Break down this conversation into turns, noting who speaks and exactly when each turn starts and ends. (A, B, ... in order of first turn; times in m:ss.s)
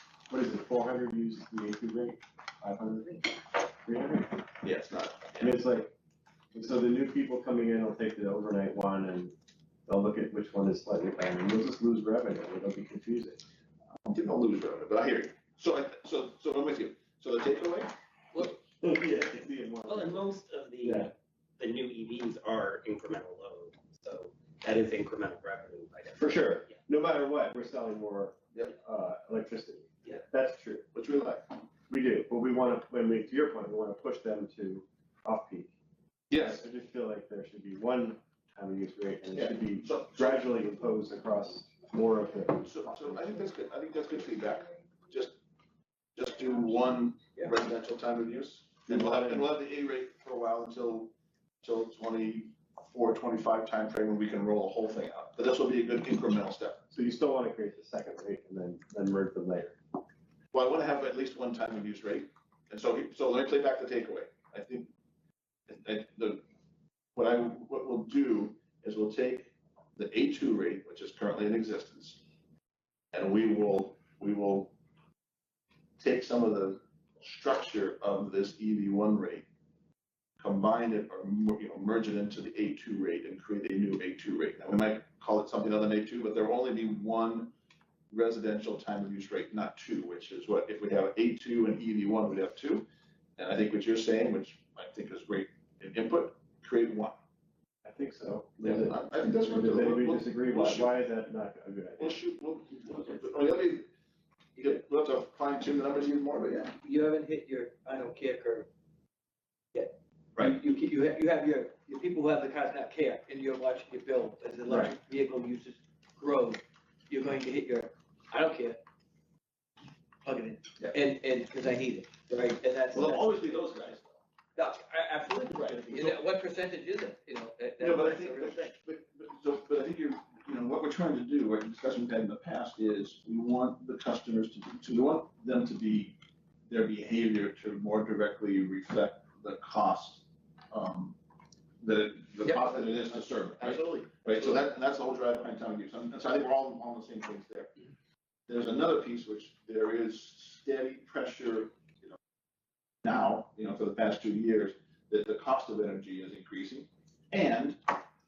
0:00.3-0:04.5 A
0:04.6-0:05.6 B
0:05.4-0:06.0 A
0:06.5-0:09.3 A
0:09.9-0:13.4 A
0:14.0-0:17.9 B
0:18.4-0:20.3 A
0:19.8-0:26.8 C
0:20.8-0:21.1 A
0:26.2-0:30.9 A
0:30.9-0:31.5 B
0:31.9-0:35.7 A
0:36.3-0:36.6 B
0:36.4-0:42.7 A
0:39.3-0:40.5 B
0:42.6-0:45.4 B
0:46.2-0:56.8 B
0:48.9-0:49.5 A
0:56.9-0:59.8 A
1:00.5-1:04.9 B
1:05.7-1:06.4 B
1:07.2-1:12.2 B
1:13.1-1:14.8 B
1:16.0-1:19.5 B
1:20.4-1:27.5 B
1:28.1-1:32.9 B
1:33.4-1:37.2 B
1:37.8-1:42.2 A
1:38.6-1:40.9 B
1:42.0-1:43.9 B
1:44.6-1:46.8 B
1:46.8-1:48.7 D
1:49.7-1:58.8 D
2:00.2-2:03.6 D
2:02.9-2:04.2 B
2:04.6-2:08.7 D
2:05.5-2:06.2 B
2:07.8-2:16.2 B
2:16.7-2:21.2 B
2:21.8-2:27.7 B
2:22.4-2:24.5 D
2:28.5-2:32.2 B
2:33.0-2:37.8 B